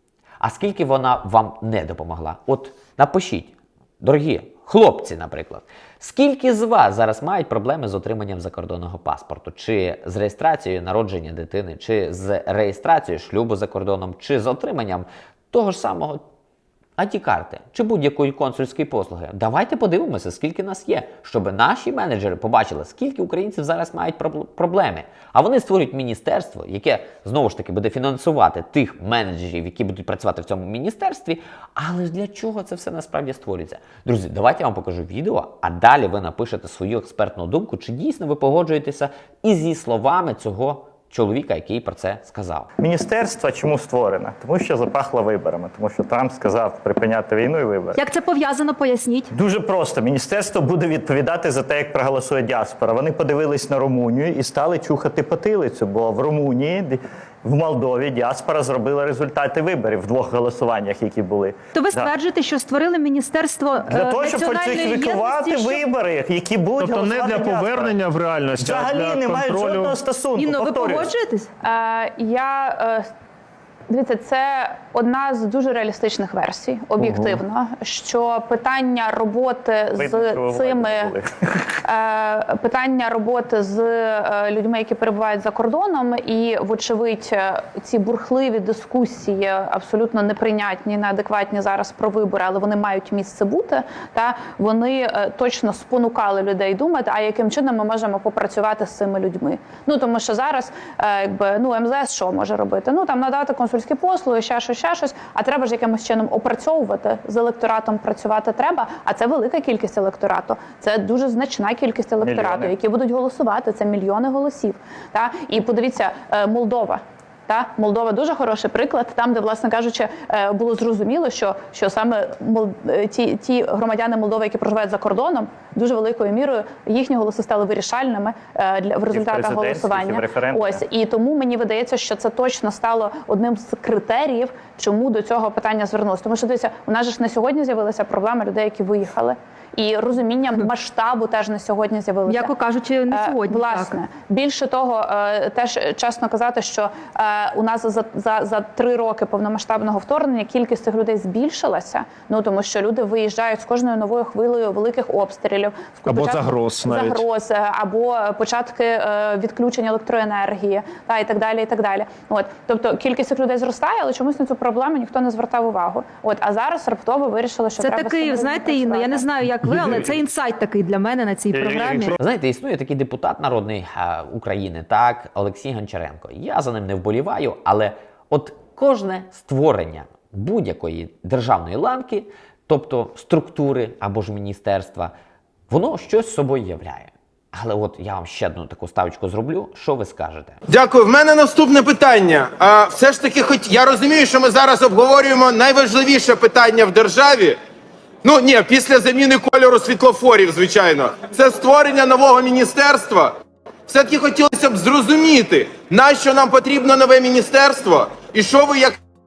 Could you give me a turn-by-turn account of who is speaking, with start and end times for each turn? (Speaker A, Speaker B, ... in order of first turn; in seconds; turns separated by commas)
Speaker A: 0.4-16.2, Speaker A: 17.0-42.7, Speaker B: 42.8-48.0, Speaker C: 48.0-49.3, Speaker B: 49.3-62.1, Speaker C: 61.7-65.8, Speaker B: 63.9-68.0, Speaker D: 66.9-69.9, Speaker B: 68.6-71.1, Speaker C: 70.3-71.5, Speaker E: 71.6-73.1, Speaker E: 73.9-81.1, Speaker B: 77.0-77.3, Speaker B: 80.0-81.3, Speaker E: 81.8-142.6, Speaker B: 112.2-112.7, Speaker B: 129.1-130.8, Speaker C: 142.3-144.0, Speaker E: 143.1-169.3, Speaker D: 156.1-157.2, Speaker C: 167.8-172.1, Speaker A: 172.2-185.1, Speaker A: 185.7-190.6, Speaker F: 190.7-197.6, Speaker F: 198.2-203.3, Speaker F: 203.9-209.0